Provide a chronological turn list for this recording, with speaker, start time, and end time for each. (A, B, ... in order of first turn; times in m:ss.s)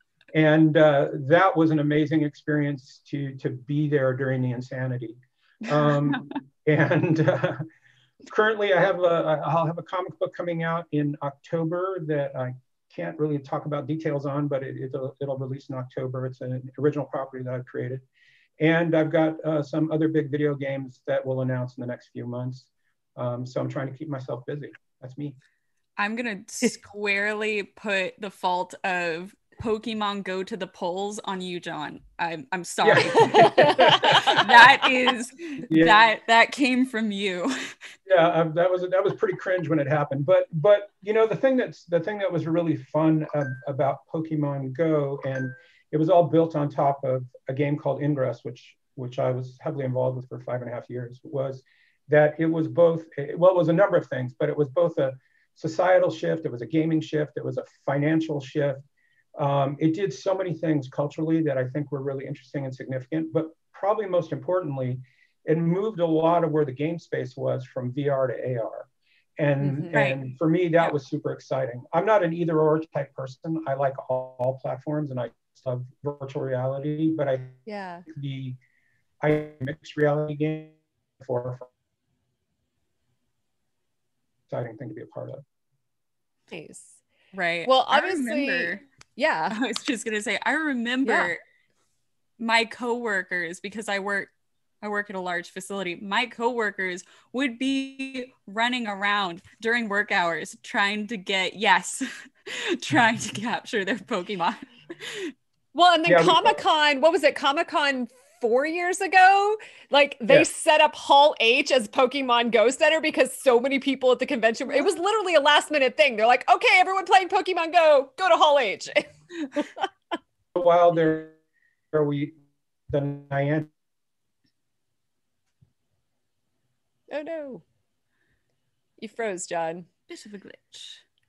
0:00.3-0:07.6 A
0:08.3-0:18.0 A
0:18.6-0:25.4 A
0:26.0-0:37.5 B
0:32.8-0:34.7 A
0:33.2-0:34.3 C
0:35.7-0:36.0 A
0:38.1-0:58.8 A
0:59.4-1:18.6 A
1:09.6-1:10.0 C
1:09.9-1:10.2 B
1:17.7-1:18.0 C
1:19.2-1:21.7 A
1:24.5-1:25.4 A
1:26.5-1:27.0 C
1:27.3-1:28.8 B
1:27.6-1:29.6 C
1:29.5-1:31.4 B
1:31.0-1:31.3 C
1:32.4-1:34.3 B
1:34.8-1:45.3 B
1:45.7-1:59.9 C
1:46.1-1:46.6 A
2:00.6-2:01.4 A
2:01.9-2:02.4 A
2:02.9-2:03.7 A
2:07.1-2:07.6 C
2:09.0-2:09.9 C
2:10.1-2:11.0 B